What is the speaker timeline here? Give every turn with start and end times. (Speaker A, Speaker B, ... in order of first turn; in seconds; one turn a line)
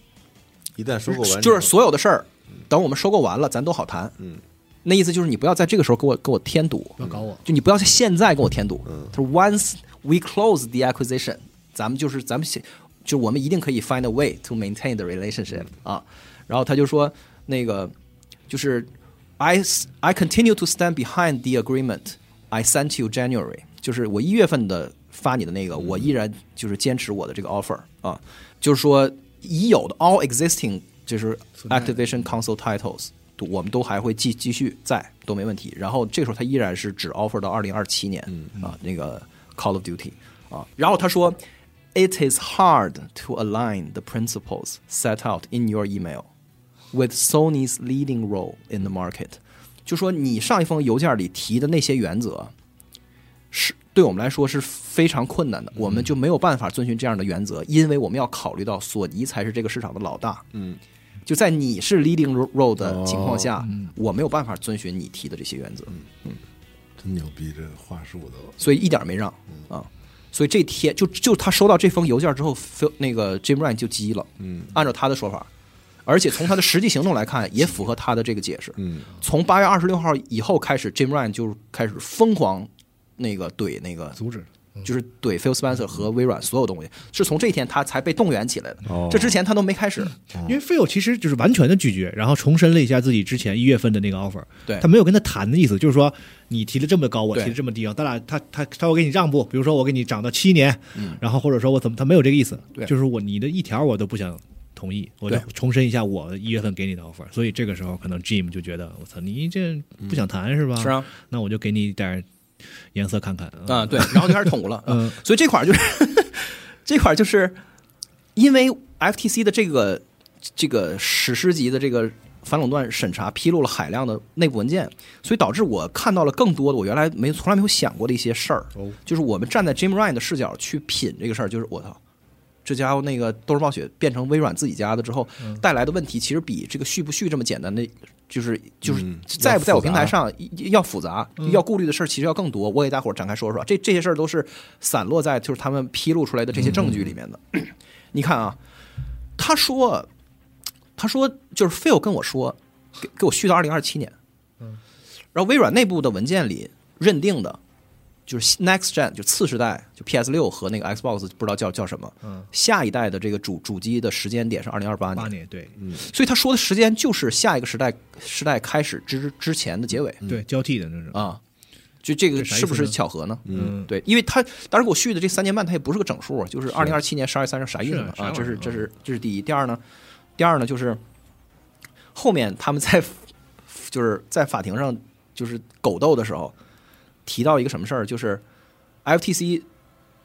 Speaker A: 0.8-1.7
Speaker B: 1.1-4.2
Speaker B: 4.8-17.9
Speaker C: 7.0-7.4
Speaker B: 18.5-41.4
Speaker C: 31.6-32.0
Speaker B: 41.9-46.3
Speaker B: 46.9-52.5
Speaker B: 53.5-60.5
Speaker A: 60.5-60.8
Speaker B: 61.2-66.4
Speaker A: 62.8-63.5
Speaker C: 63.6-63.9
Speaker A: 67.0-68.5
Speaker B: 68.6-75.5
Speaker A: 74.4-74.7
Speaker B: 76.0-84.2
Speaker A: 78.8-79.0
Speaker C: 84.2-84.8
Speaker B: 84.8-90.2
Speaker A: 88.8-89.3
Speaker C: 90.3-112.2
Speaker B: 100.9-101.2
Speaker B: 110.8-111.1
Speaker C: 112.9-115.2
Speaker B: 113.7-117.6
Speaker B: 118.3-120.0
Speaker B: 120.5-132.0
Speaker B: 132.6-148.6
Speaker A: 138.8-140.1
Speaker C: 146.7-146.9
Speaker B: 149.4-150.1
Speaker B: 151.0-154.1
Speaker B: 155.3-157.6
Speaker B: 158.3-165.3
Speaker C: 165.2-165.8
Speaker B: 165.9-170.2
Speaker C: 170.2-171.2
Speaker B: 171.1-171.4
Speaker B: 172.0-179.8
Speaker C: 172.4-173.9
Speaker A: 173.4-173.7
Speaker C: 177.9-178.8
Speaker B: 180.4-181.0
Speaker B: 182.1-186.5
Speaker B: 187.2-188.4
Speaker B: 189.0-189.7